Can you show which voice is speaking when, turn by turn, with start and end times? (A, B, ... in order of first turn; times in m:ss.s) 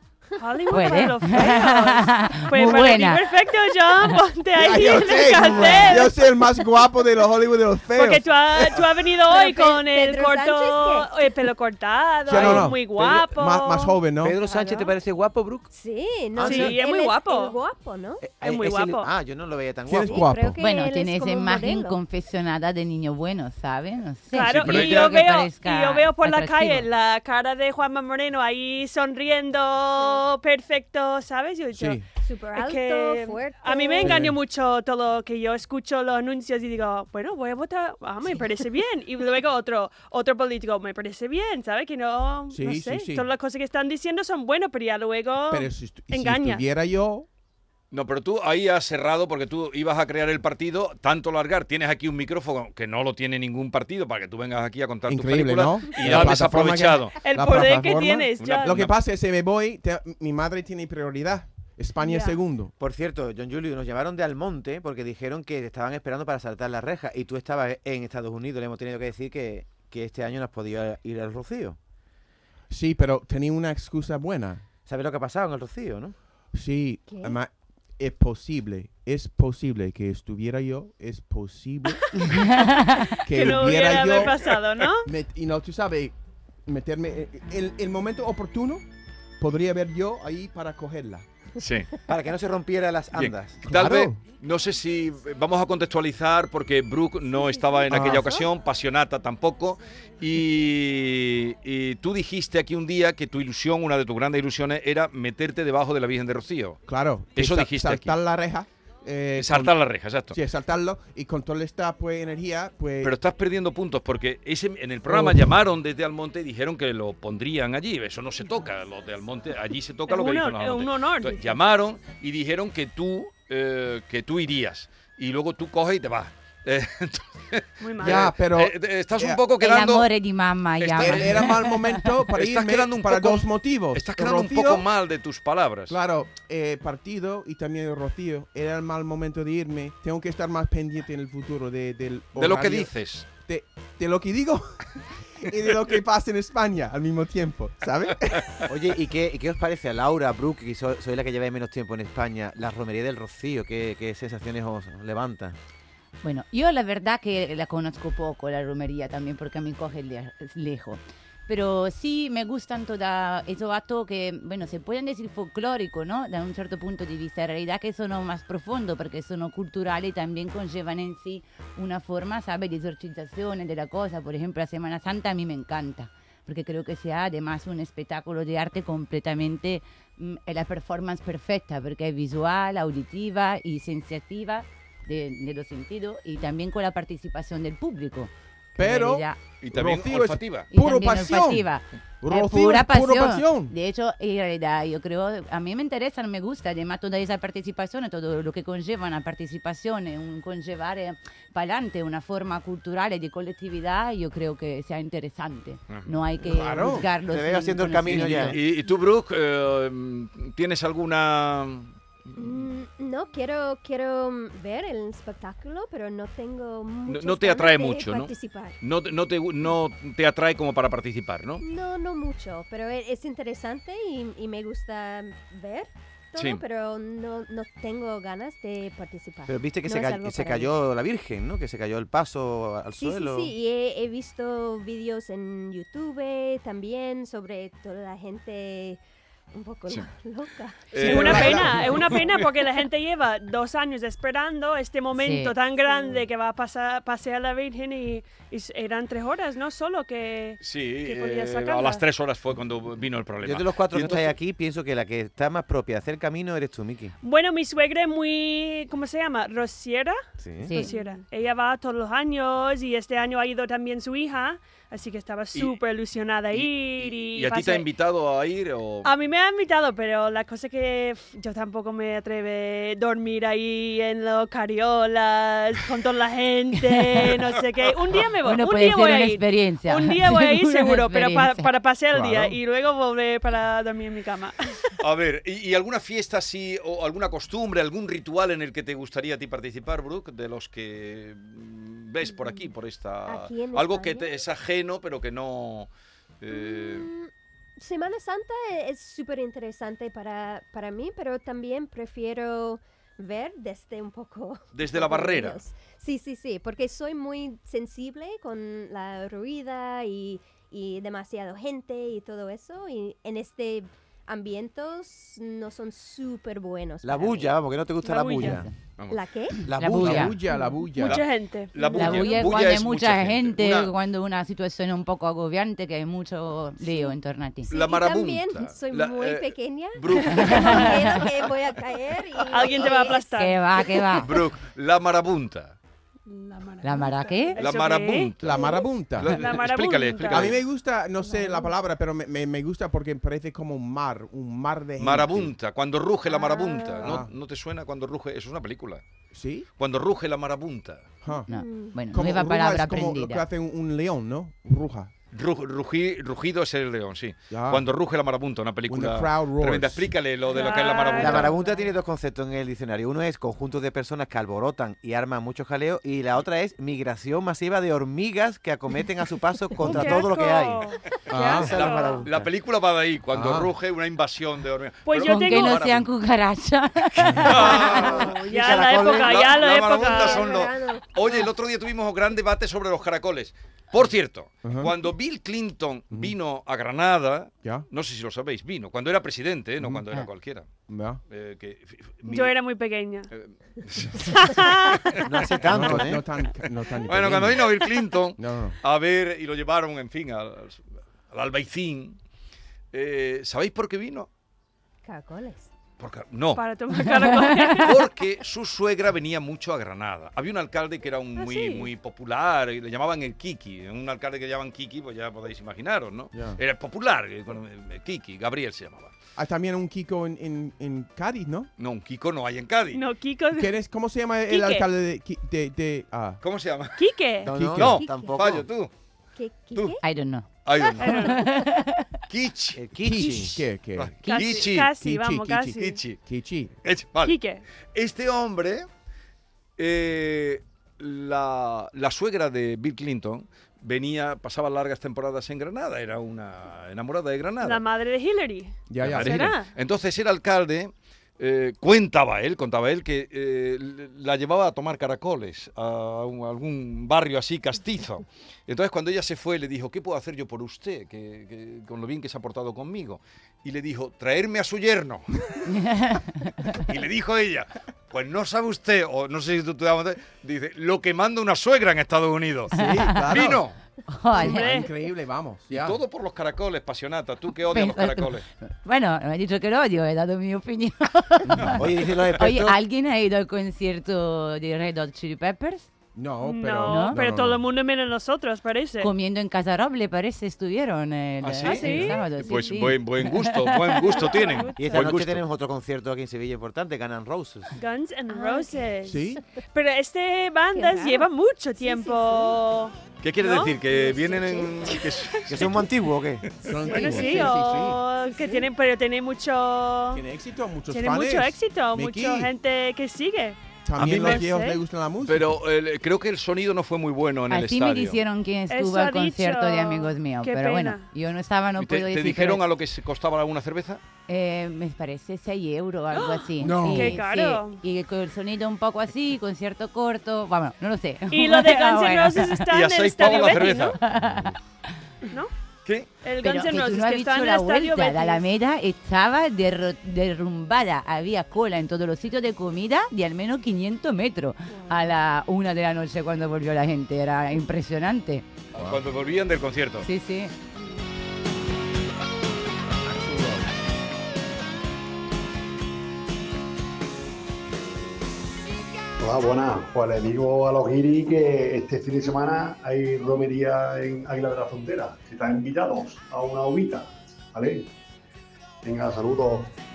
0:00.4-0:06.3 A
0:00.7-0:03.2 B
0:04.6-0:08.8 C
0:07.9-0:14.0 A
0:09.3-0:11.3 D
0:12.3-0:14.4 C
0:12.4-0:13.0 E
0:14.2-0:15.7 E
0:15.7-0:18.3 D
0:16.3-0:16.8 E
0:16.4-0:17.6 A
0:18.2-0:20.4 E
0:18.4-0:19.1 A
0:19.9-0:20.6 C
0:20.0-0:22.0 D
0:20.6-0:26.9 B
0:24.3-0:32.0 A
0:24.5-0:25.2 F
0:31.7-0:32.0 C
0:32.2-0:34.2 D
0:32.5-0:46.6 A
0:34.0-0:34.4 C
0:42.5-0:43.3 C
0:45.5-0:47.3 C
0:47.9-0:57.2 F
0:55.1-1:02.7 C
0:57.2-0:58.8 A
0:58.4-0:58.9 F
1:02.0-1:02.4 A
1:02.8-1:11.8 E
1:12.7-1:14.6 C
1:14.8-1:16.2 E
1:16.5-1:22.4 C
1:17.1-1:17.4 D
1:22.3-1:23.0 B
1:23.2-1:25.1 A
1:23.2-1:24.5 C
1:25.0-1:26.1 C
1:26.7-1:28.8 C
1:29.4-1:31.2 C
1:31.6-1:31.9 F
1:32.1-1:33.9 E
1:33.1-1:46.8 F
1:33.6-1:34.2 C
1:37.9-1:38.4 C
1:46.9-1:49.7 C
1:47.3-1:48.2 F
1:49.4-1:50.4 F
1:50.3-1:53.1 C
1:53.0-2:10.1 F
1:55.1-1:55.5 C
2:00.1-2:01.6 A
2:07.8-2:08.2 A
2:08.0-2:09.4 C
2:09.6-2:12.1 B
2:10.8-2:11.6 F
2:11.0-2:14.8 C
2:12.3-2:16.0 F
2:15.9-2:28.6 C
2:22.4-2:23.2 F
2:28.7-2:35.6 E
2:36.2-3:09.4 B
3:08.8-3:11.7 C
3:09.6-3:10.7 F
3:10.7-3:28.6 B
3:12.2-3:13.7 C
3:26.4-3:27.1 C
3:27.2-3:28.6 E
3:28.1-3:32.7 F
3:32.4-3:38.8 D
3:37.1-3:41.6 F
3:41.6-3:50.7 D
3:46.3-3:46.6 F
3:49.5-3:53.6 E
3:53.0-3:59.0 D
3:59.5-4:02.1 D
4:00.9-4:02.5 F
4:00.9-4:12.0 A
4:05.1-4:05.5 B
4:05.8-4:06.2 D
4:10.6-4:14.3 F
4:13.4-4:17.1 E
4:17.2-4:20.2 A
4:20.4-4:20.8 E
4:20.6-4:20.9 B
4:20.8-4:27.9 A
4:25.5-4:25.8 F
4:26.5-4:29.1 F
4:29.0-4:44.8 A
4:38.4-4:41.7 B
4:42.1-4:42.6 C
4:45.0-4:55.9 F
4:53.2-4:54.4 D
4:56.4-4:57.1 F
4:56.5-5:17.5 D
5:04.7-5:05.6 F
5:17.0-5:18.7 E
5:18.0-5:18.6 A
5:19.0-5:19.2 F
5:19.1-5:19.7 D
5:19.6-5:20.4 E
5:19.7-5:20.4 B
5:19.9-5:21.2 C
5:20.4-5:20.8 D
5:20.9-5:22.5 A
5:21.0-5:23.9 F
5:21.9-5:27.7 B
5:26.8-5:27.1 D
5:27.6-5:33.2 D
5:27.7-5:31.3 F
5:30.4-5:31.2 B
5:30.6-5:31.1 A
5:32.4-5:33.6 A
5:33.2-5:34.3 B
5:34.2-5:35.8 F
5:36.2-5:38.6 A
5:36.8-5:37.6 B
5:37.6-5:40.6 F
5:38.4-5:39.4 C
5:38.5-5:38.9 D
5:39.2-5:40.5 A
5:40.3-5:45.5 C
5:41.2-5:41.7 D
5:45.0-5:49.0 F
5:46.2-5:47.1 A
5:47.0-5:47.3 C
5:49.3-5:49.7 C
5:49.8-5:51.1 F
5:51.2-5:51.5 C
5:51.3-5:52.0 D
5:51.5-5:53.4 B
5:52.0-5:55.1 C
5:55.3-6:01.5 F
5:57.5-5:57.8 C
5:58.9-6:00.1 C
6:00.5-6:01.5 A
6:00.5-6:01.9 D
6:01.2-6:12.5 E
6:09.8-6:12.2 A
6:11.3-6:11.7 C
6:11.6-6:16.1 F
6:13.3-6:13.7 C
6:15.0-6:15.8 A
6:15.2-6:17.9 B
6:17.2-6:30.7 F
6:17.6-6:21.5 D
6:17.7-6:20.6 A
6:18.5-6:19.4 E
6:24.6-6:24.9 C
6:30.9-6:31.2 C
6:31.3-6:32.5 F
6:32.3-6:33.3 A
6:33.3-6:35.3 F
6:34.2-6:35.2 A
6:35.2-6:36.2 E
6:35.6-6:37.7 C
6:37.0-6:42.2 F
6:38.4-6:38.8 C
6:42.9-6:44.3 F
6:45.0-6:45.7 D
6:46.0-6:46.6 F
6:46.5-6:48.1 A
6:47.2-6:47.8 B
6:47.7-6:59.2 F
6:51.4-6:51.9 A
6:56.3-6:56.6 C
6:59.4-7:01.7 C
7:01.8-7:03.0 F
7:02.9-7:03.8 A
7:03.5-7:06.4 C
7:04.5-7:04.9 A
7:06.4-7:08.9 F
7:07.0-7:07.5 A
7:07.4-7:08.7 E
7:07.5-7:08.0 C
7:07.8-7:08.6 D
7:09.4-7:10.0 D
7:10.0-7:10.5 B
7:10.6-7:11.3 F
7:11.0-7:11.4 A
7:11.0-7:12.1 B
7:12.3-7:14.9 F
7:12.8-7:13.6 E
7:13.0-7:16.7 C
7:14.2-7:16.0 A
7:15.8-7:16.2 F
7:16.8-7:17.4 F
7:17.2-7:17.6 A
7:17.9-7:18.9 F
7:19.8-7:27.8 F
7:27.6-7:29.7 A
7:28.9-7:29.5 C
7:29.0-7:45.5 F
7:45.6-7:46.8 B
7:46.8-7:52.7 F
7:52.7-7:53.6 C
7:52.8-7:53.3 B
7:53.3-7:53.8 F
7:54.1-7:54.8 B
7:54.3-7:56.0 C
7:54.4-7:54.9 A
7:55.7-7:58.4 F
7:57.7-8:05.9 B
8:01.7-8:02.8 E
8:06.1-8:07.6 C
8:06.4-8:09.1 A
8:06.8-8:07.2 B
8:09.0-8:14.3 B
8:11.4-8:15.4 F
8:11.6-8:12.2 A
8:14.1-8:15.1 A
8:14.7-8:17.7 E
8:17.8-8:19.2 A
8:18.3-8:19.6 D
8:19.0-8:19.4 C
8:19.7-8:23.8 A
8:20.7-8:22.6 D
8:23.2-8:25.8 F
8:23.8-8:25.0 D
8:24.9-8:25.6 A
8:25.5-8:26.5 E
8:26.6-8:28.0 C
8:26.8-8:30.2 A
8:26.9-8:28.7 D
8:30.1-8:32.5 C
8:30.9-8:34.8 A
8:33.8-8:35.6 C
8:34.0-8:34.5 F
8:35.2-8:38.2 F
8:37.5-8:42.6 B
8:38.7-8:41.1 A
8:41.8-8:44.0 F
8:44.3-8:52.6 B
8:46.1-8:47.8 A
8:46.6-8:47.2 C
8:51.3-8:54.0 A
8:52.7-8:54.0 F
8:54.0-8:54.5 B
8:56.2-8:58.4 A
8:56.4-9:08.4 B
9:04.7-9:05.0 D
9:08.7-9:10.1 F
9:08.7-9:09.0 C
9:10.0-9:10.5 B
9:13.0-9:13.7 C
9:19.2-9:27.9 G
9:28.8-9:29.7 G